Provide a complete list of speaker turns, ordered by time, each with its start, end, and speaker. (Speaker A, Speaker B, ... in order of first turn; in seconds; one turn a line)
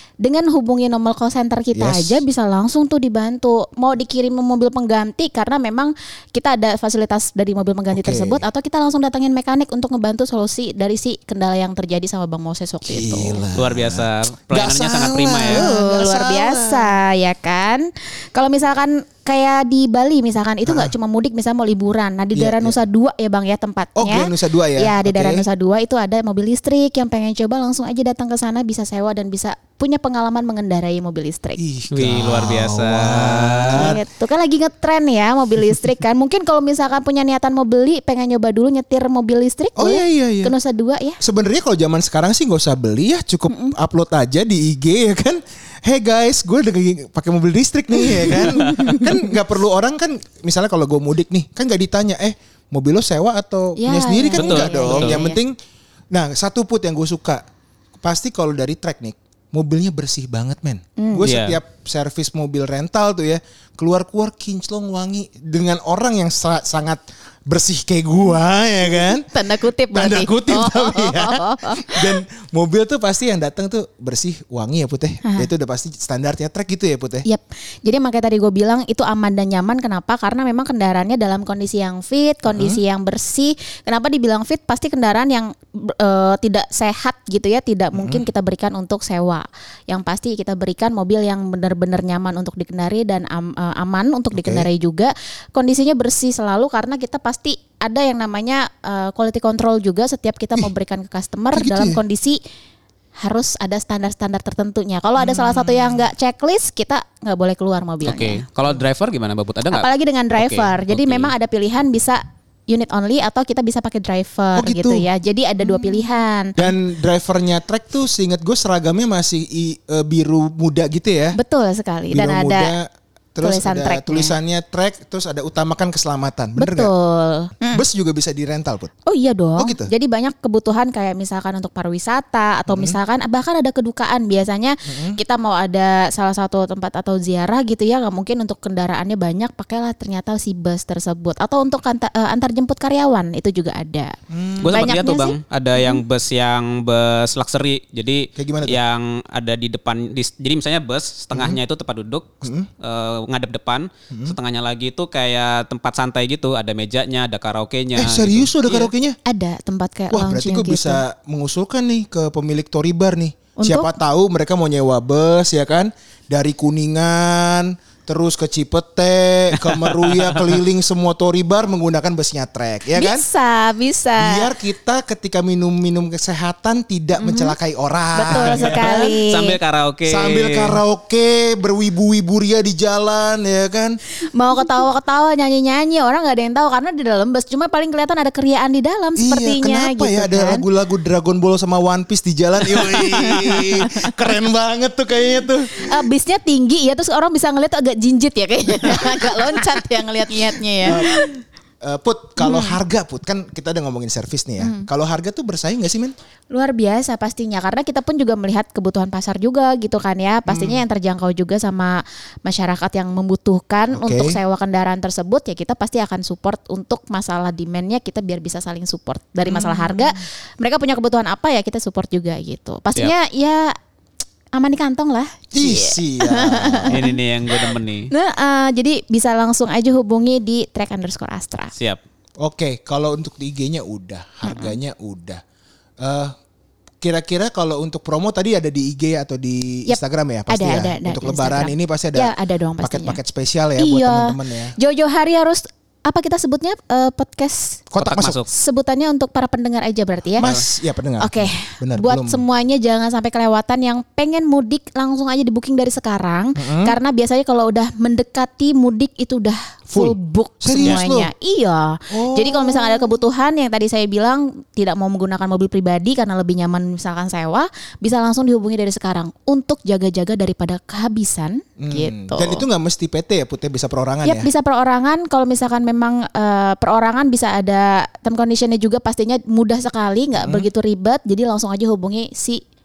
Speaker A: 0.2-13.4
Speaker B: 1.7-2.2
Speaker B: 7.9-8.4
Speaker B: 12.8-17.0
Speaker C: 13.6-15.7
Speaker A: 15.4-31.6
Speaker B: 20.6-20.9
Speaker B: 22.3-22.8
Speaker B: 23.9-25.4
Speaker B: 31.6-34.0
Speaker C: 31.9-34.0
Speaker A: 33.7-41.2
Speaker B: 39.8-40.5
Speaker B: 41.2-55.6
Speaker A: 43.5-43.8
Speaker A: 48.0-49.2
Speaker C: 48.6-48.9
Speaker A: 53.8-55.4
Speaker C: 54.3-55.2
Speaker B: 56.1-57.4
Speaker B: 58.0-69.3
Speaker A: 61.0-61.3
Speaker C: 61.2-61.6
Speaker A: 68.8-72.2
Speaker B: 69.9-77.2
Speaker A: 75.2-75.5
Speaker A: 77.2-102.4
Speaker B: 82.5-82.8
Speaker B: 87.9-88.2
Speaker B: 94.3-94.7
Speaker B: 101.5-102.0
Speaker A: 103.2-108.4
Speaker B: 105.2-105.9
Speaker C: 108.0-111.3
Speaker A: 109.7-116.7
Speaker B: 114.5-115.1
Speaker B: 116.5-121.4
Speaker A: 121.3-122.8
Speaker B: 122.1-126.9
Speaker A: 123.4-124.3
Speaker A: 126.6-127.8
Speaker B: 127.7-128.9
Speaker A: 129.1-146.0
Speaker B: 129.6-129.9
Speaker B: 132.7-133.0
Speaker B: 134.9-135.2
Speaker B: 144.3-144.9
Speaker C: 144.6-158.9
Speaker B: 148.3-148.8
Speaker B: 151.3-151.6
Speaker B: 152.4-152.7
Speaker B: 154.1-154.3
Speaker B: 157.9-159.2
Speaker A: 159.2-161.0
Speaker B: 160.1-173.2
Speaker A: 163.6-163.9
Speaker C: 169.6-170.6
Speaker A: 172.9-174.6
Speaker B: 174.2-179.1
Speaker A: 177.2-177.6
Speaker A: 178.1-179.6
Speaker C: 178.3-180.8
Speaker B: 180.1-184.0
Speaker A: 184.3-190.7
Speaker B: 189.2-196.0
Speaker A: 192.7-194.1
Speaker A: 195.8-201.4
Speaker B: 198.9-199.3
Speaker B: 200.8-201.3
Speaker B: 201.8-206.1
Speaker A: 202.4-202.8
Speaker A: 204.6-204.9
Speaker A: 206.5-223.7
Speaker B: 210.5-210.8
Speaker B: 213.9-214.4
Speaker B: 219.4-220.1
Speaker A: 224.5-231.7
Speaker B: 225.5-227.0
Speaker C: 226.8-228.1
Speaker C: 231.7-232.0
Speaker B: 232.4-235.4
Speaker A: 234.4-234.8
Speaker B: 236.0-236.3
Speaker B: 237.0-244.8
Speaker A: 239.9-243.2
Speaker A: 243.8-247.9
Speaker B: 247.9-248.4
Speaker C: 248.0-248.5
Speaker A: 248.5-250.5
Speaker B: 250.4-252.4
Speaker A: 251.2-272.6
Speaker B: 256.6-256.9
Speaker B: 259.9-261.3
Speaker B: 262.1-263.2
Speaker B: 271.8-274.5
Speaker A: 274.2-282.6
Speaker B: 280.3-280.7